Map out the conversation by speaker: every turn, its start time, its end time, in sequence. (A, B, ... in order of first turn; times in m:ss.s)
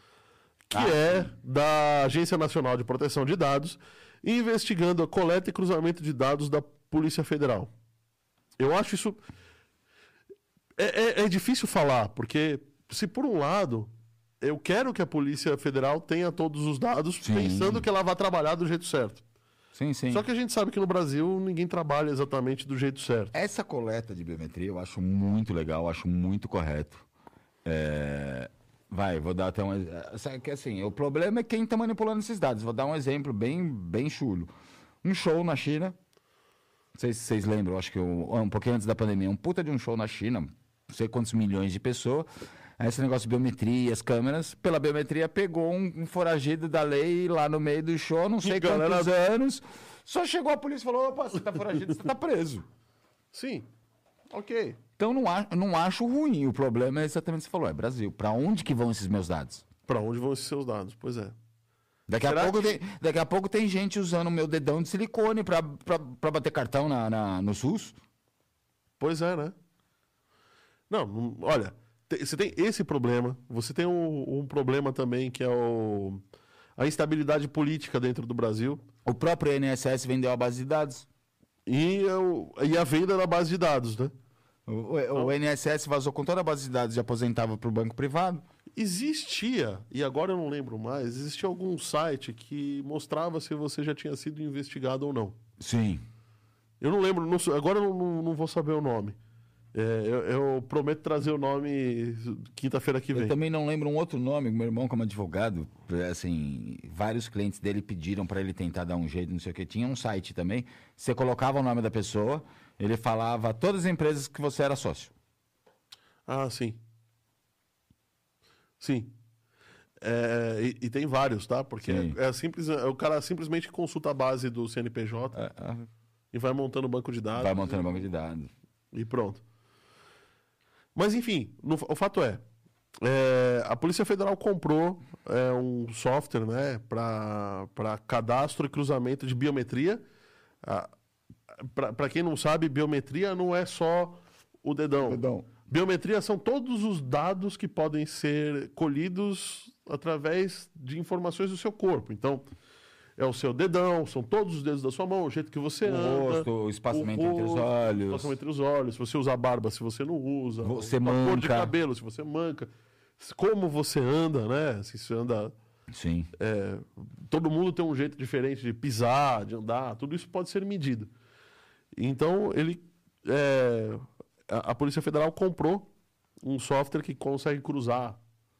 0:00.7-0:07.7 A
0:00.7-0:01.3 B
0:08.6-0:09.2 A
0:10.8-0:19.2 A
0:17.2-0:17.9 B
0:19.7-0:20.2 B
0:20.1-0:23.3 A
0:23.3-0:27.0 B
0:27.6-0:34.5 B
0:35.0-0:36.0 B
0:37.0-0:42.3 B
0:42.8-0:52.6 B
0:48.4-0:49.1 A
0:53.3-0:53.7 A
0:54.3-0:54.8 A
0:55.0-0:59.6 B
0:59.9-1:01.4 A
1:02.1-1:08.0 B
1:02.2-1:02.8 A
1:09.0-1:09.6 A
1:10.9-1:16.2 A
1:16.8-1:18.8 A
1:19.0-1:21.1 B
1:21.7-1:24.1 A
1:24.7-1:28.4 B
1:28.8-1:35.4 A
1:35.6-1:36.0 B
1:36.8-1:39.2 A
1:39.7-1:43.4 A
1:43.1-1:55.1 B
1:56.3-1:56.8 A
1:58.8-1:59.1 A
2:00.0-2:05.4 A
2:01.8-2:02.2 B
2:05.3-2:05.9 B
2:06.3-2:07.9 A
2:07.4-2:08.5 B
2:08.9-2:09.4 A
2:11.0-2:12.4 A
2:13.0-2:20.0 A
2:20.6-2:20.9 A
2:21.6-2:32.5 A
2:25.0-2:25.5 B
2:33.2-2:45.5 A
2:35.8-2:38.3 B
2:40.6-2:41.7 B
2:45.9-2:46.3 B
2:46.4-2:51.1 A
2:52.0-2:55.9 A
2:56.4-2:58.2 A